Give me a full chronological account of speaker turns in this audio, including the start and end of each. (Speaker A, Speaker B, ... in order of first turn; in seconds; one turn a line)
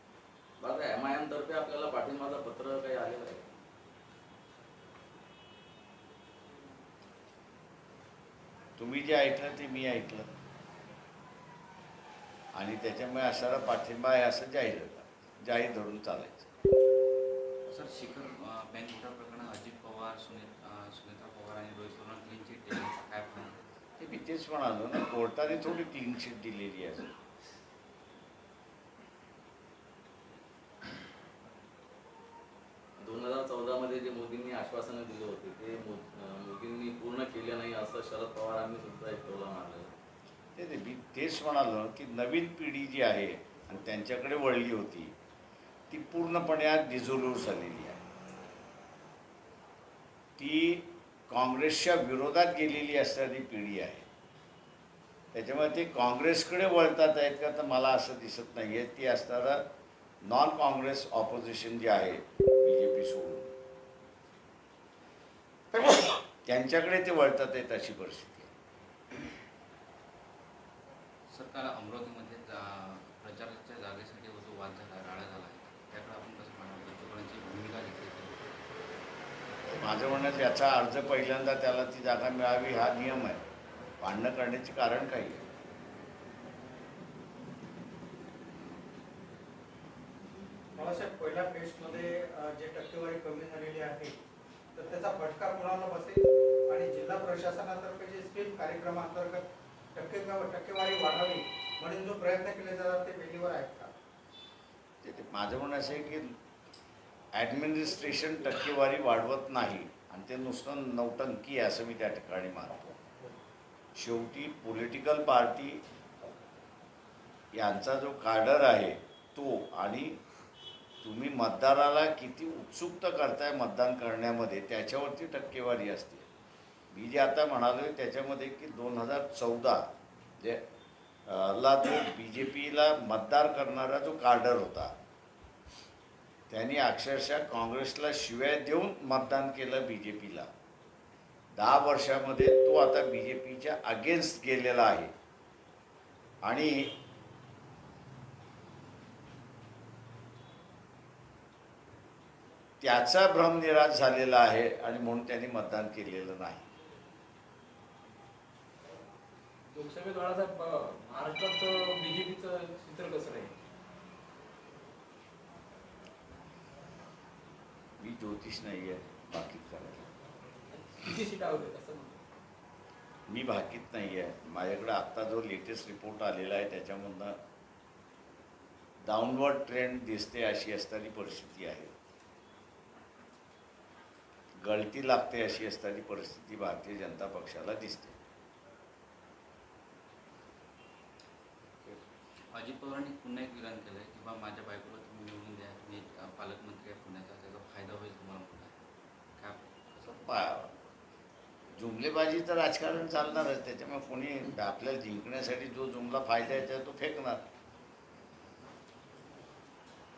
Speaker A: 0.6-3.5
Speaker B: 8.8-10.3
Speaker B: 12.6-16.5
Speaker C: 17.7-23.6
Speaker B: 24.0-27.1
Speaker A: 33.0-39.9
Speaker B: 40.6-45.1
Speaker B: 45.9-48.0
Speaker B: 50.4-54.1
Speaker B: 55.3-59.6
Speaker B: 60.3-63.5
Speaker B: 66.4-68.5
Speaker C: 71.3-78.5
Speaker B: 79.7-83.4
Speaker B: 84.0-85.5
Speaker D: 90.8-94.2
Speaker D: 94.8-103.9
Speaker B: 105.0-106.3
Speaker B: 107.3-113.0
Speaker B: 114.0-115.8
Speaker B: 117.5-120.2
Speaker B: 121.0-126.3
Speaker B: 126.9-129.9
Speaker B: 131.3-134.9
Speaker B: 136.5-140.5
Speaker B: 141.6-145.1
Speaker B: 146.4-146.9
Speaker B: 152.8-156.7
Speaker E: 159.7-163.5
Speaker B: 168.0-170.1
Speaker E: 170.7-172.2
Speaker B: 173.3-177.4
Speaker B: 179.1-182.0
Speaker B: 184.6-188.2
Speaker C: 192.5-198.8
Speaker C: 199.4-199.7
Speaker B: 200.0-200.7
Speaker B: 201.8-207.4